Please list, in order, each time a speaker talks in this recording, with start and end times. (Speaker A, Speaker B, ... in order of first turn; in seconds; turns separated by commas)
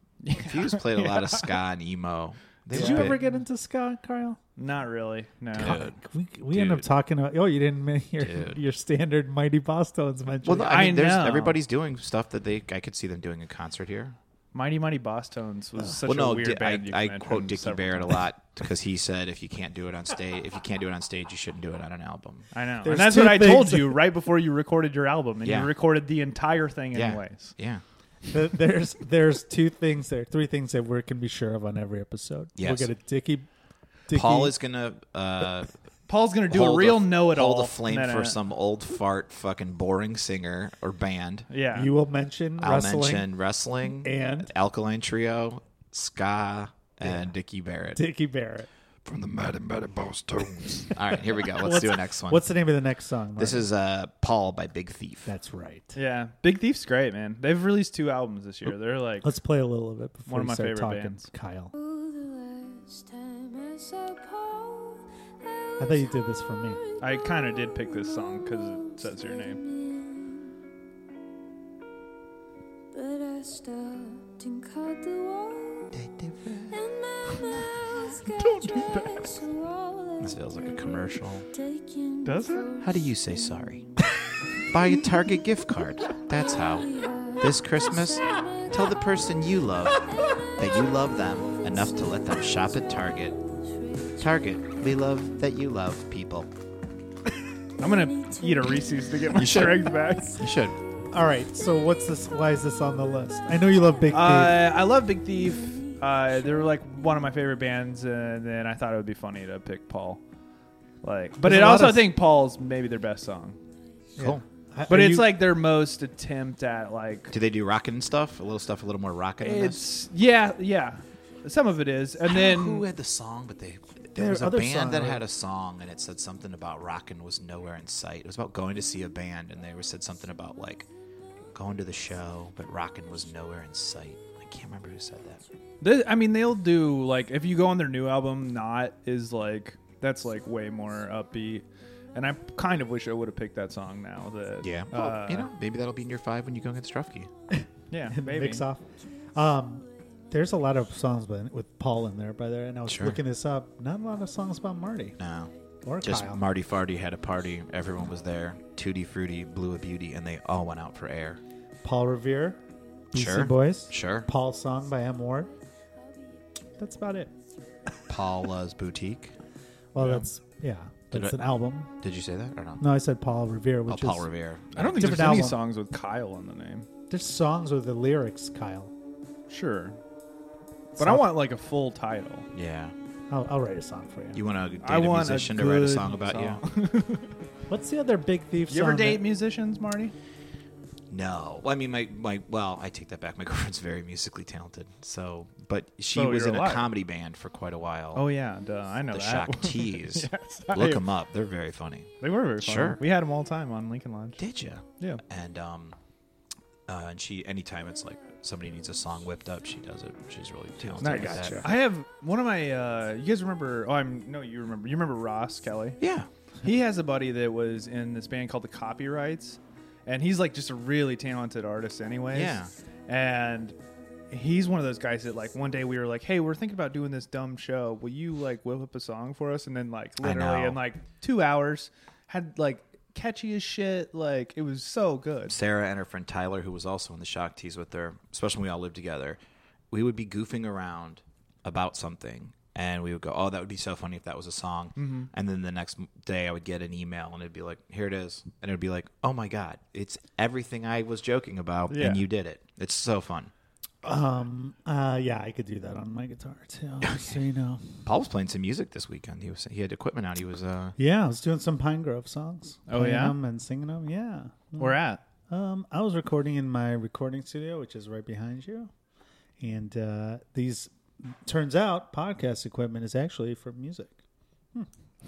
Speaker A: 0.2-1.5, Speaker B: 0.3-3.2, Speaker C: 2.7-4.4, Speaker A: 2.7-3.3, Speaker A: 4.6-5.8, Speaker B: 5.5-6.0, Speaker C: 5.6-10.8, Speaker B: 6.5-6.9, Speaker B: 8.2-8.6, Speaker B: 10.4-14.2, Speaker A: 10.7-11.6, Speaker A: 14.5-18.2, Speaker B: 16.0-22.5, Speaker A: 22.5-27.5, Speaker C: 22.9-24.0, Speaker B: 25.4-25.7, Speaker B: 26.9-27.8, Speaker C: 28.3-33.5, Speaker B: 32.6-32.9, Speaker C: 34.1-34.5, Speaker B: 34.1-35.7, Speaker A: 36.1-38.4, Speaker B: 36.5-41.5, Speaker A: 41.5-41.9, Speaker C: 41.7-43.3, Speaker B: 42.6-48.0, Speaker C: 44.0-44.5, Speaker C: 47.9-48.7, Speaker B: 49.0-52.5, Speaker C: 51.4-53.7, Speaker B: 53.4-55.3, Speaker C: 55.2-56.0, Speaker A: 55.9-59.3, Speaker C: 59.2-61.7, Speaker A: 60.3-61.3, Speaker D: 61.7-70.5, Speaker C: 65.8-66.8, Speaker A: 67.0-69.6, Speaker D: 72.9-76.0, Speaker B: 75.9-76.7, Speaker D: 76.7-83.6, Speaker A: 78.3-79.4, Speaker B: 80.2-81.5, Speaker A: 82.2-82.7, Speaker B: 82.8-83.8, Speaker B: 84.7-90.1, Speaker D: 86.1-95.3, Speaker B: 90.6-93.3, Speaker B: 94.2-96.5, Speaker A: 97.8-100.4, Speaker D: 97.8-100.6, Speaker B: 99.4-100.7, Speaker C: 101.1-104.6, Speaker A: 104.1-110.2, Speaker D: 105.6-106.4, Speaker A: 111.0-113.6, Speaker C: 111.4-112.1, Speaker C: 114.2-115.3, Speaker B: 114.2-114.4, Speaker A: 114.9-117.3, Speaker B: 117.3-119.8, Speaker A: 119.4-122.9, Speaker B: 122.2-130.9, Speaker C: 124.2-125.2, Speaker B: 131.5-135.4, Speaker A: 135.8-145.5, Speaker B: 144.6-147.3, Speaker C: 147.6-155.2, Speaker A: 147.9-148.6, Speaker B: 152.9-153.2, Speaker B: 155.2-155.5, Speaker C: 155.8-156.4, Speaker B: 156.0-161.4, Speaker C: 161.8-162.6, Speaker B: 163.1-164.3, Speaker C: 163.1-165.5, Speaker C: 166.8-167.3, Speaker B: 168.1-169.3, Speaker C: 169.9-171.9, Speaker A: 170.0-170.2, Speaker B: 171.1-171.4, Speaker B: 172.0-172.8, Speaker C: 172.8-174.3, Speaker B: 173.9-175.5, Speaker A: 174.8-176.9, Speaker C: 174.9-175.6, Speaker C: 177.1-178.9, Speaker A: 179.5-180.0, Speaker C: 180.9-181.3, Speaker A: 181.0-182.5, Speaker B: 182.5-182.9, Speaker C: 183.3-184.4, Speaker B: 184.3-186.6, Speaker A: 184.8-187.3, Speaker C: 187.7-189.2, Speaker A: 188.7-190.1, Speaker B: 191.1-198.2, Speaker A: 196.1-196.9, Speaker A: 198.1-201.0, Speaker B: 199.1-203.0, Speaker A: 202.2-204.4, Speaker B: 204.4-206.0, Speaker B: 206.9-211.7, Speaker C: 211.0-211.7, Speaker A: 211.0-216.0, Speaker B: 216.0-216.3, Speaker A: 216.6-223.8, Speaker B: 222.3-222.7, Speaker A: 224.3-235.6, Speaker B: 230.2-230.8, Speaker B: 235.4-239.4, Speaker B: 239.9-253.5, Speaker A: 245.0-245.3, Speaker A: 251.9-252.2, Speaker C: 254.0-258.0, Speaker B: 257.0-257.4, Speaker B: 258.1-260.9, Speaker C: 261.0-268.9, Speaker A: 262.9-263.4, Speaker A: 264.8-265.2, Speaker C: 269.6-274.2